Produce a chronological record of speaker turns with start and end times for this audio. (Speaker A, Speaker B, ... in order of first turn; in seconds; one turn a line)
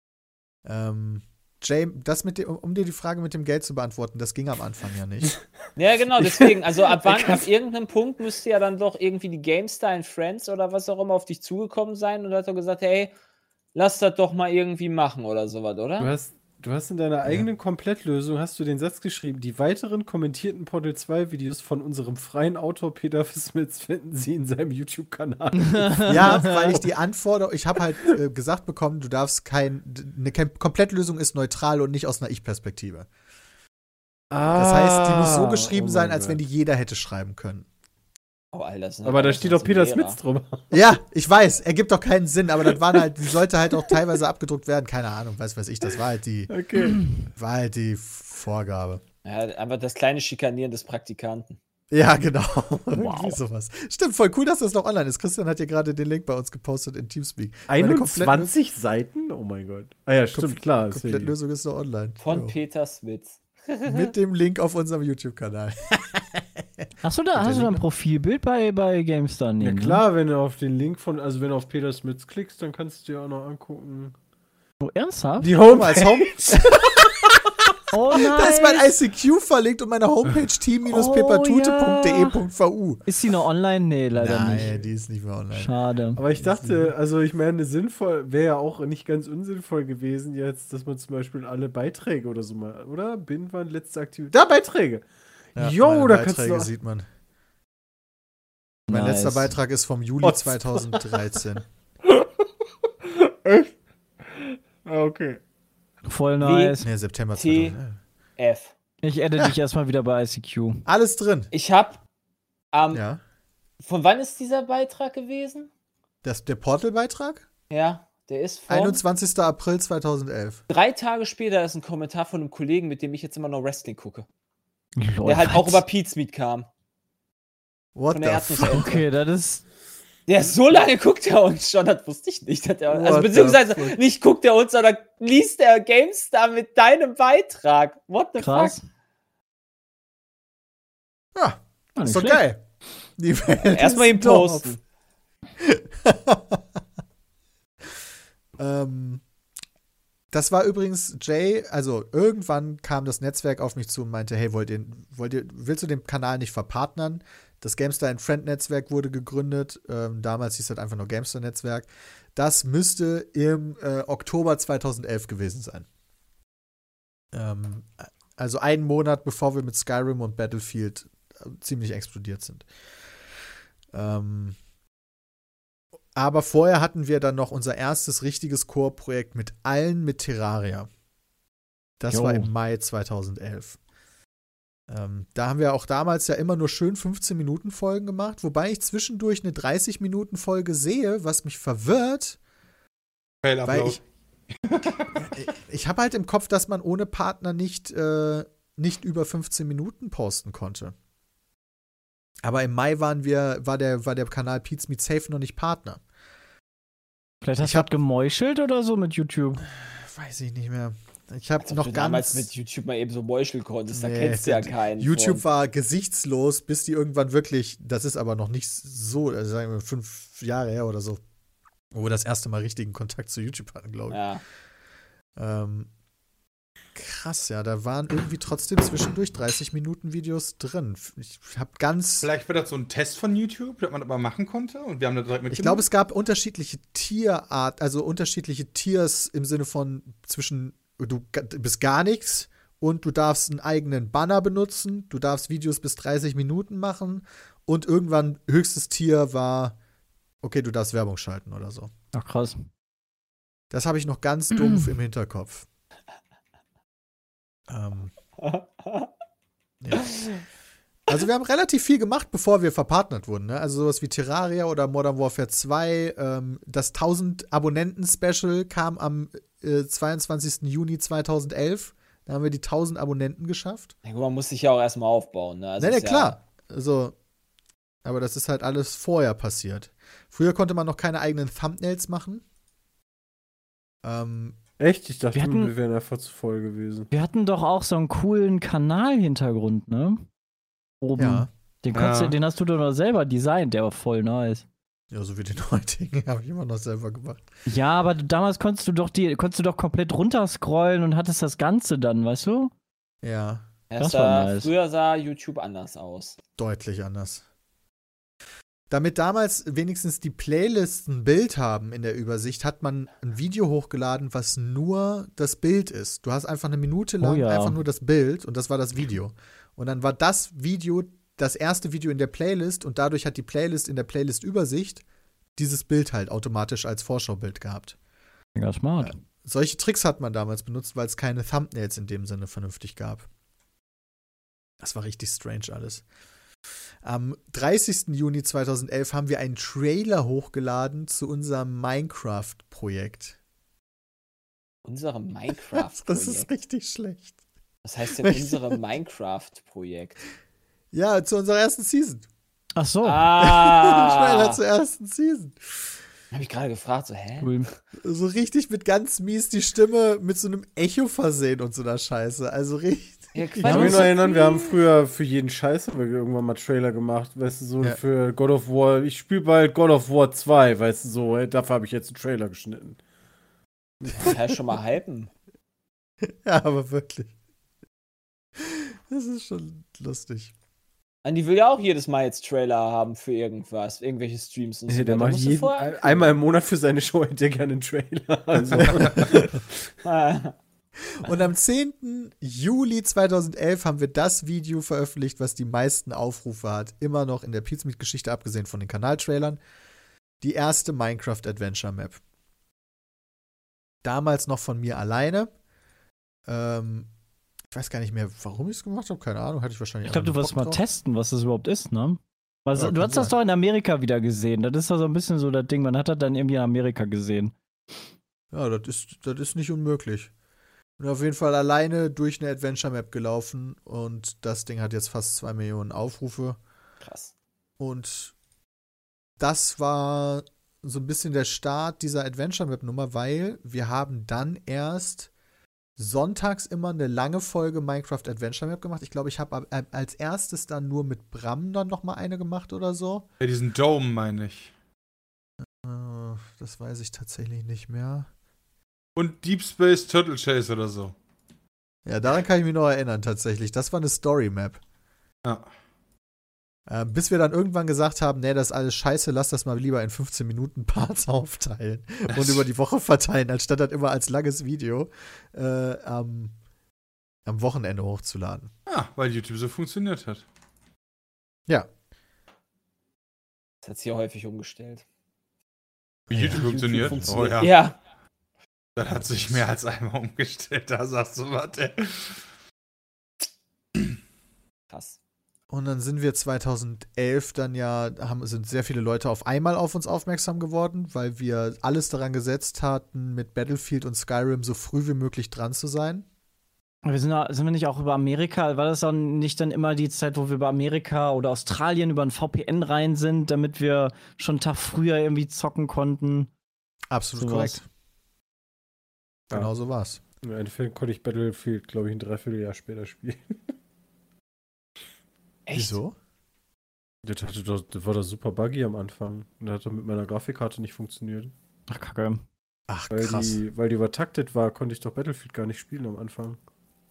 Speaker A: 0.7-5.4
Speaker B: 5.8-13.1
Speaker C: 6.2-7.4
Speaker B: 13.8-16.1
Speaker C: 16.0-26.8
Speaker D: 25.6-26.8
Speaker A: 26.1-33.1
Speaker C: 34.3-36.4
Speaker A: 34.5-37.7
Speaker B: 38.5-40.2
Speaker C: 39.0-40.8
Speaker A: 40.7-46.5
Speaker C: 46.5-47.1
Speaker A: 47.4-49.0
Speaker B: 49.2-51.6
Speaker A: 51.9-58.5
Speaker D: 52.9-53.4
Speaker C: 57.7-61.4
Speaker A: 60.3-62.5
Speaker B: 62.2-64.1
Speaker A: 63.9-66.5
Speaker D: 67.0-70.0
Speaker A: 67.4-67.8
Speaker C: 69.6-74.2
Speaker D: 74.8-75.5
Speaker C: 75.4-77.4
Speaker A: 75.7-77.5
Speaker D: 77.9-78.9
Speaker A: 78.1-83.0
Speaker D: 80.9-82.4
Speaker D: 83.1-84.7
Speaker A: 84.2-85.7
Speaker D: 85.5-86.2
Speaker C: 86.2-96.7
Speaker A: 86.4-86.9
Speaker A: 95.6-97.1
Speaker D: 98.9-99.6
Speaker A: 98.9-101.7
Speaker C: 100.2-101.4
Speaker C: 103.0-103.7
Speaker C: 104.3-105.4
Speaker D: 106.1-106.9
Speaker B: 106.4-106.8
Speaker A: 106.8-108.0
Speaker B: 107.3-107.8
Speaker B: 108.4-108.7
Speaker D: 109.0-110.9
Speaker A: 110.9-111.5
Speaker B: 111.5-112.0
Speaker B: 112.7-113.0
Speaker A: 112.9-113.2
Speaker B: 113.8-115.7
Speaker A: 116.2-117.5
Speaker B: 117.7-119.0
Speaker A: 118.7-120.6
Speaker B: 120.7-124.3
Speaker D: 125.0-125.8
Speaker B: 125.3-126.7
Speaker A: 128.0-129.0
Speaker B: 128.1-129.0
Speaker D: 128.7-129.6
Speaker B: 130.3-138.8
Speaker A: 132.9-134.0
Speaker D: 138.4-138.8
Speaker A: 141.3-142.6
Speaker D: 142.0-142.5
Speaker A: 143.2-144.8
Speaker B: 143.7-144.8
Speaker A: 145.6-146.6
Speaker A: 148.6-149.2
Speaker A: 150.3-165.9
Speaker A: 167.3-172.7
Speaker A: 173.9-174.6
Speaker A: 176.2-180.9
Speaker A: 182.0-183.8
Speaker D: 182.1-182.5
Speaker A: 184.9-192.4
Speaker E: 193.4-194.0
Speaker A: 193.7-194.0
Speaker E: 194.6-195.3
Speaker A: 195.2-200.9
Speaker A: 202.4-206.0
Speaker D: 207.4-209.7
Speaker A: 207.6-207.9
Speaker A: 209.8-212.5
Speaker B: 211.6-215.4
Speaker A: 213.9-221.2
Speaker A: 221.9-224.2
Speaker B: 224.1-224.4
Speaker A: 225.4-225.9
Speaker A: 226.9-232.3
Speaker E: 232.2-235.9
Speaker A: 235.5-249.8
Speaker A: 250.4-251.9
Speaker D: 252.1-252.6
Speaker A: 253.7-255.7
Speaker D: 254.5-254.9
Speaker A: 257.7-258.1
Speaker B: 258.4-259.1
Speaker A: 259.8-260.1
Speaker A: 261.1-273.9
Speaker B: 274.0-276.3
Speaker A: 275.8-277.1
Speaker A: 278.1-282.4
Speaker A: 284.0-284.6
Speaker C: 284.8-287.1
Speaker D: 285.3-285.7
Speaker D: 287.1-290.2
Speaker D: 291.0-294.7
Speaker A: 291.2-291.5
Speaker E: 291.9-292.4
Speaker A: 295.1-297.4
Speaker D: 297.7-302.7
Speaker A: 303.2-303.7
Speaker B: 303.9-306.4
Speaker D: 304.0-304.7
Speaker A: 306.6-307.4
Speaker A: 308.9-325.0
Speaker D: 317.2-317.8
Speaker A: 325.6-328.0
Speaker D: 328.6-329.2
Speaker A: 329.0-333.3
Speaker A: 334.8-336.0
Speaker A: 337.0-343.4
Speaker B: 344.9-346.5
Speaker A: 345.5-347.4
Speaker B: 347.8-350.2
Speaker A: 348.2-348.8
Speaker A: 350.9-352.3
Speaker D: 352.8-353.3
Speaker B: 353.0-354.6
Speaker A: 353.4-356.0
Speaker B: 356.3-357.5
Speaker D: 357.4-357.7
Speaker A: 358.0-364.0
Speaker B: 363.3-364.8
Speaker C: 363.6-373.0
Speaker D: 363.6-364.1
Speaker C: 374.0-374.3
Speaker B: 374.1-375.3
Speaker A: 376.2-377.3
Speaker A: 378.6-380.5
Speaker B: 381.2-386.1
Speaker C: 384.9-389.7
Speaker A: 388.8-389.4
Speaker B: 390.0-390.6
Speaker A: 391.0-399.6
Speaker A: 400.4-402.2
Speaker A: 404.0-405.5
Speaker A: 406.5-407.1
Speaker A: 407.7-410.8
Speaker D: 410.1-417.5
Speaker A: 412.8-413.3
Speaker A: 418.5-420.3
Speaker A: 421.0-426.6
Speaker B: 427.0-427.3
Speaker A: 427.8-428.3
Speaker A: 429.4-435.3
Speaker A: 436.0-443.2
Speaker E: 443.4-444.7
Speaker A: 445.6-448.3
Speaker E: 449.2-451.1
Speaker A: 452.1-454.8
Speaker A: 456.9-466.6
Speaker E: 462.3-462.6
Speaker A: 467.5-468.7
Speaker E: 468.9-470.4
Speaker B: 473.8-475.0
Speaker A: 476.3-477.2
Speaker E: 476.3-477.8
Speaker B: 476.5-478.0
Speaker E: 479.0-482.4
Speaker B: 484.9-485.2
Speaker A: 485.7-496.3
Speaker D: 497.1-506.5
Speaker A: 507.1-507.9
Speaker D: 507.4-507.8
Speaker A: 509.5-510.2
Speaker C: 510.4-513.7
Speaker B: 515.7-516.0
Speaker A: 515.7-516.2
Speaker C: 517.2-521.5
Speaker D: 521.9-522.4
Speaker A: 522.9-523.6
Speaker C: 523.1-526.6